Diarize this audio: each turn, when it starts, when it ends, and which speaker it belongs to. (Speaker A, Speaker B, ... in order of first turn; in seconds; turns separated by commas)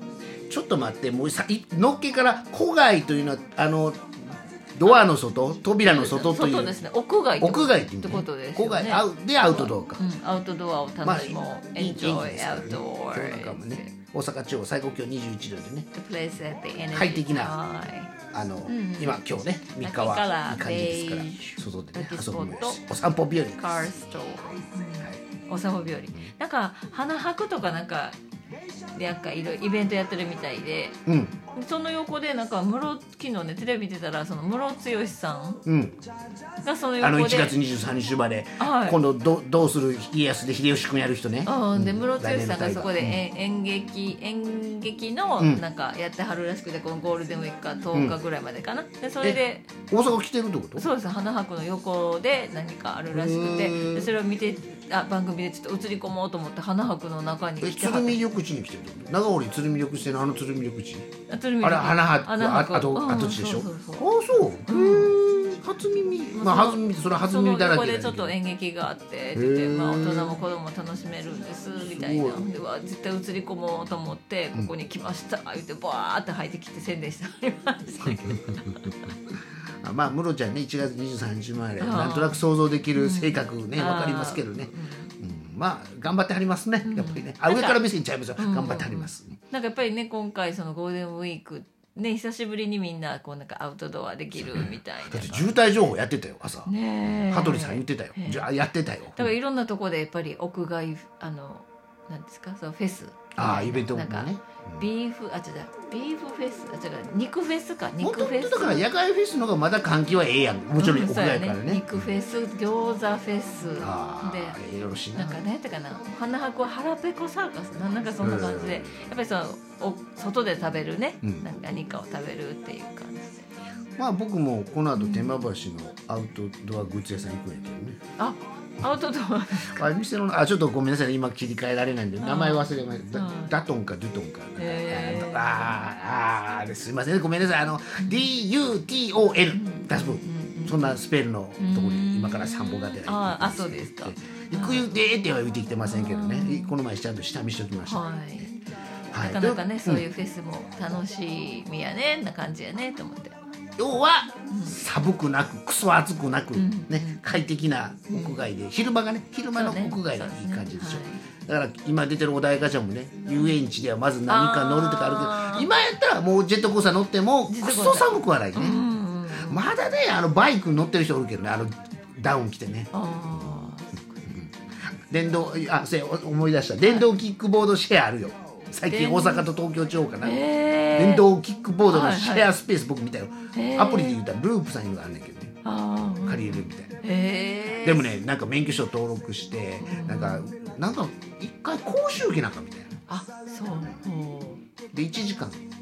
Speaker A: 0.5-6.8, Speaker B: 4.8-5.1, Speaker B: 5.8-13.9, Speaker A: 7.4-10.0, Speaker A: 11.0-15.9, Speaker B: 15.9-18.1, Speaker A: 16.9-17.6, Speaker A: 18.3-24.2, Speaker B: 18.7-19.2, Speaker B: 19.8-22.8, Speaker B: 23.6-28.2, Speaker B: 28.9-31.0, Speaker A: 31.1-31.4, Speaker B: 31.5-35.6, Speaker A: 35.7-36.0, Speaker B: 36.6-37.6, Speaker A: 37.0-43.2, Speaker B: 38.6-39.0, Speaker B: 41.5-49.7, Speaker A: 49.9-50.9, Speaker B: 50.8-58.2, Speaker A: 53.1-54.1, Speaker A: 57.6-61.1, Speaker B: 61.3-64.1, Speaker A: 61.6-68.3, Speaker B: 64.7-65.2, Speaker B: 66.3-79.2, Speaker A: 69.3-70.4, Speaker A: 71.8-72.5, Speaker A: 78.0-78.9, Speaker A: 79.8-89.4, Speaker B: 81.8-82.4, Speaker B: 82.9-85.2, Speaker B: 86.8-87.8, Speaker B: 88.4-95.6, Speaker A: 94.4-96.7, Speaker B: 96.7-98.5, Speaker A: 97.3-99.3, Speaker B: 99.2-108.8, Speaker A: 103.3-104.9, Speaker A: 108.0-111.9, Speaker B: 110.8-114.6, Speaker A: 113.8-115.4, Speaker B: 115.1-123.5, Speaker A: 118.2-119.1, Speaker A: 124.0-128.0, Speaker B: 125.0-125.4, Speaker B: 128.2-129.9, Speaker A: 129.6-148.1, Speaker B: 132.2-133.6, Speaker B: 134.6-135.8, Speaker B: 138.0-138.3, Speaker B: 139.5-141.0, Speaker B: 141.6-144.9, Speaker B: 145.8-146.8, Speaker B: 147.9-148.6, Speaker A: 149.1-150.0, Speaker B: 149.1-153.3, Speaker A: 153.8-168.8, Speaker B: 154.5-154.8, Speaker B: 156.6-157.4, Speaker B: 158.1-158.4, Speaker B: 159.5-161.2, Speaker B: 163.3-163.6, Speaker B: 164.3-165.7, Speaker B: 167.5-169.7, Speaker A: 169.4-172.9, Speaker B: 172.9-174.4, Speaker A: 175.1-180.4, Speaker B: 178.9-179.5, Speaker B: 180.2-181.3, Speaker A: 180.9-185.6, Speaker B: 181.9-182.5, Speaker B: 183.5-184.2, Speaker B: 185.6-188.1, Speaker A: 186.2-186.9, Speaker A: 187.8-193.0, Speaker B: 189.8-190.5, Speaker B: 193.1-194.6, Speaker A: 194.9-195.6